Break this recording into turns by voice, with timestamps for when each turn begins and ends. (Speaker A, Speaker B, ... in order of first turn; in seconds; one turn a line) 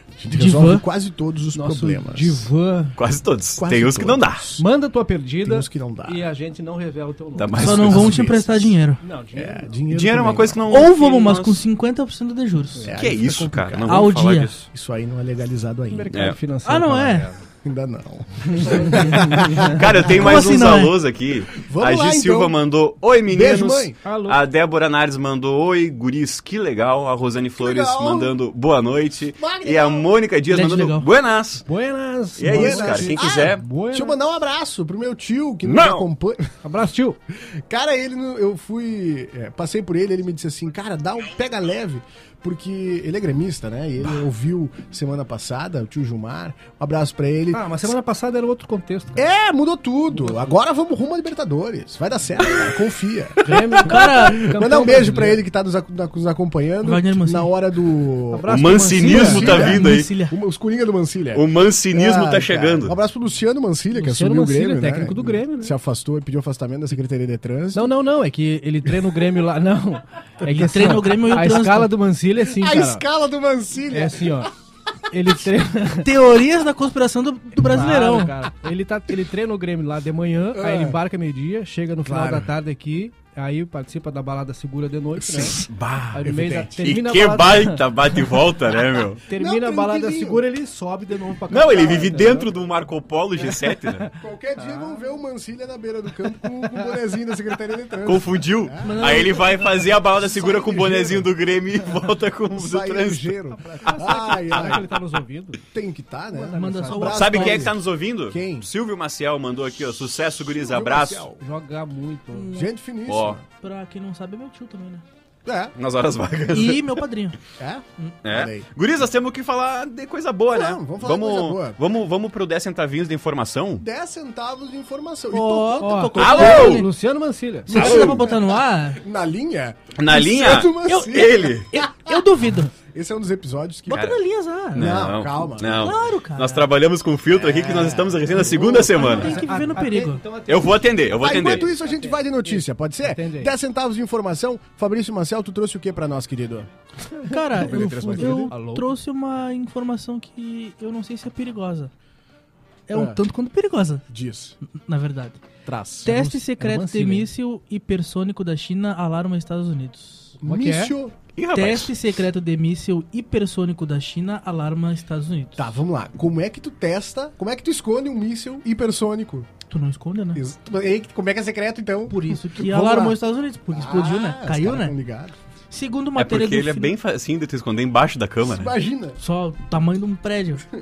Speaker A: 0.2-2.5
Speaker B: 0.3-0.8
Speaker C: 1.6-3.0
Speaker D: 3.0-4.5
Speaker A: 3.6-4.7
Speaker C: 4.6-8.1
Speaker A: 5.4-6.2
Speaker D: 7.4-8.7
Speaker A: 7.6-8.6
Speaker B: 7.6-9.0
Speaker C: 9.0-9.8
Speaker A: 9.3-10.7
Speaker D: 9.9-11.7
Speaker B: 10.7-13.0
Speaker A: 12.8-14.1
Speaker D: 13.0-14.7
Speaker B: 13.9-14.5
Speaker A: 14.7-16.1
Speaker C: 15.9-17.5
Speaker B: 16.6-17.3
Speaker A: 17.6-20.6
Speaker C: 18.4-20.2
Speaker D: 19.2-31.7
Speaker B: 20.2-20.9
Speaker A: 21.5-22.6
Speaker A: 23.3-24.0
Speaker C: 24.0-24.4
Speaker A: 27.6-28.3
Speaker A: 29.4-30.1
Speaker B: 30.5-31.1
Speaker C: 31.6-34.2
Speaker D: 32.4-33.6
Speaker A: 32.5-36.5
Speaker D: 35.6-36.1
Speaker C: 36.6-37.2
Speaker A: 37.5-47.9
Speaker C: 47.5-49.3
Speaker A: 49.2-67.9
Speaker C: 50.1-50.5
Speaker C: 53.4-55.4
Speaker B: 53.9-54.5
Speaker B: 56.8-57.5
Speaker C: 58.3-59.8
Speaker D: 58.5-60.1
Speaker B: 59.1-60.4
Speaker D: 61.3-63.0
Speaker C: 63.9-65.8
Speaker C: 67.7-73.0
Speaker B: 70.5-71.9
Speaker A: 72.4-74.5
Speaker C: 73.9-74.5
Speaker C: 75.1-76.1
Speaker B: 76.0-78.4
Speaker C: 77.6-88.2
Speaker A: 80.5-81.0
Speaker A: 82.0-82.5
Speaker A: 85.2-85.7
Speaker D: 85.4-86.2
Speaker A: 86.2-86.9
Speaker D: 86.8-89.2
Speaker C: 89.2-92.5
Speaker A: 89.3-90.5
Speaker D: 91.5-94.1
Speaker A: 91.5-92.3
Speaker C: 93.7-95.0
Speaker A: 94.2-99.5
Speaker D: 98.0-104.9
Speaker B: 98.8-99.6
Speaker A: 100.2-101.3
Speaker A: 102.5-104.9
Speaker C: 103.8-105.6
Speaker A: 105.7-108.7
Speaker C: 106.3-107.3
Speaker B: 106.5-107.7
Speaker D: 107.1-111.3
Speaker A: 110.3-111.4
Speaker C: 111.4-112.5
Speaker B: 112.3-112.7
Speaker A: 112.5-113.5
Speaker D: 113.1-113.4
Speaker B: 113.6-115.0
Speaker A: 115.5-115.8
Speaker D: 115.8-117.0
Speaker B: 116.5-117.4
Speaker A: 117.6-118.7
Speaker D: 118.2-123.8
Speaker A: 120.5-121.8
Speaker A: 123.8-126.8
Speaker B: 125.3-126.9
Speaker C: 125.8-127.8
Speaker D: 126.2-126.8
Speaker A: 127.7-132.3
Speaker B: 127.7-129.0
Speaker D: 127.7-128.2
Speaker D: 130.0-131.7
Speaker B: 130.9-132.7
Speaker A: 132.8-134.2
Speaker D: 133.9-134.2
Speaker B: 133.9-134.9
Speaker D: 134.7-139.4
Speaker A: 134.7-135.9
Speaker B: 135.8-136.7
Speaker A: 137.3-139.1
Speaker B: 138.9-140.2
Speaker C: 138.9-143.5
Speaker D: 140.5-141.7
Speaker A: 141.2-146.7
Speaker C: 147.1-148.9
Speaker B: 147.3-151.9
Speaker A: 147.5-148.5
Speaker B: 152.9-154.0
Speaker A: 152.9-153.2
Speaker A: 154.1-154.6
Speaker B: 154.7-155.4
Speaker A: 155.7-156.2
Speaker B: 156.0-160.4
Speaker C: 156.1-157.3
Speaker A: 160.4-161.2
Speaker C: 160.4-160.9
Speaker D: 161.4-161.9
Speaker B: 161.5-165.7
Speaker A: 165.6-169.5
Speaker B: 169.7-170.4
Speaker A: 170.3-173.2
Speaker B: 172.1-174.9
Speaker A: 173.7-175.4
Speaker B: 175.7-176.9
Speaker D: 176.2-178.7
Speaker A: 178.4-179.2
Speaker B: 179.2-180.7